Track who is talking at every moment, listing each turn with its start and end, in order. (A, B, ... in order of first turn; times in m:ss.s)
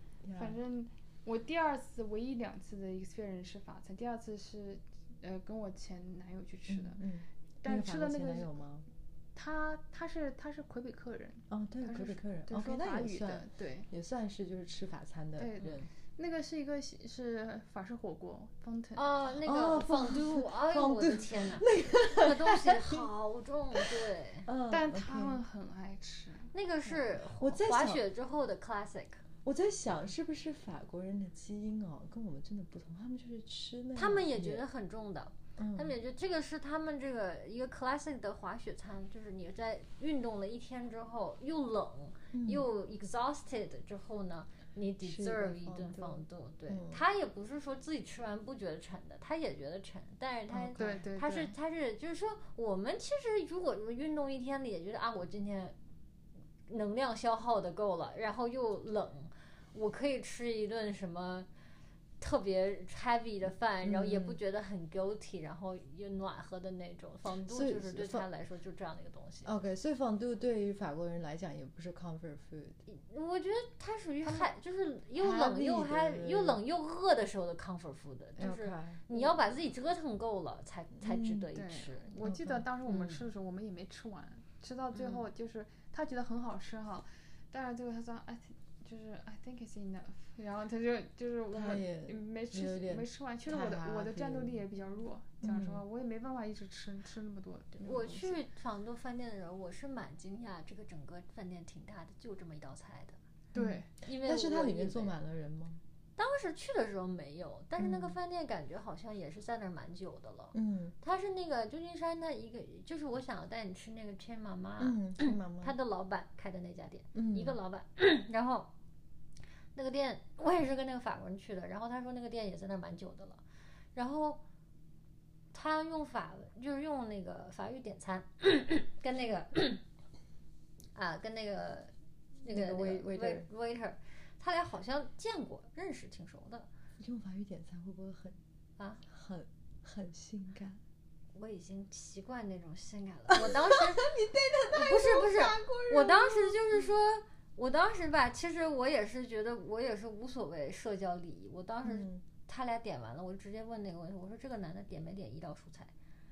0:00.2-0:00.6 A
0:00.3-0:07.0 B
0:06.7-0:08.8 A
0:07.6-0:08.5 B
0:09.3-0:13.9 B
0:11.5-0:15.9 A
0:15.4-0:19.0 B
0:18.9-0:24.5 C
0:19.4-0:23.1 A
0:23.7-0:25.4 A
0:24.7-0:27.0 B
0:26.5-0:29.2 C
0:27.4-0:28.0 A
0:29.4-0:34.6 A
0:34.0-0:55.8 C
0:35.6-0:36.0 A
0:42.3-0:42.7 A
0:45.0-0:47.0 A
0:50.5-0:51.0 A
0:50.8-0:51.5 B
0:56.7-1:01.5 C
1:02.2-1:09.5 C
1:03.8-1:04.4 A
1:07.5-1:08.2 A
1:09.4-1:12.8 A
1:12.9-1:22.3 C
1:15.2-1:16.6 A
1:18.4-1:19.0 A
1:21.0-1:21.5 A
1:21.5-1:38.4 B
1:22.2-1:22.6 A
1:22.8-1:23.2 C
1:31.5-1:34.6 A
1:35.4-1:35.8 A
1:37.8-1:43.2 C
1:43.5-1:43.9 B
1:43.5-1:45.8 A
1:44.0-1:45.2 C
1:46.2-1:58.7 C
1:47.8-1:48.2 A
1:50.5-1:51.0 A
1:54.8-1:55.7 A
1:57.1-1:57.6 A
1:59.7-2:03.4 C
2:03.9-2:04.4 C
2:05.5-2:09.8 C
2:10.9-2:11.9 C
2:12.4-2:13.5 A
2:12.4-2:16.7 C
2:17.0-2:18.4 A
2:18.8-2:19.0 C
2:19.1-2:20.8 A
2:21.3-2:24.1 C
2:23.3-2:26.9 A
2:24.7-2:35.9 C
2:31.8-2:32.2 A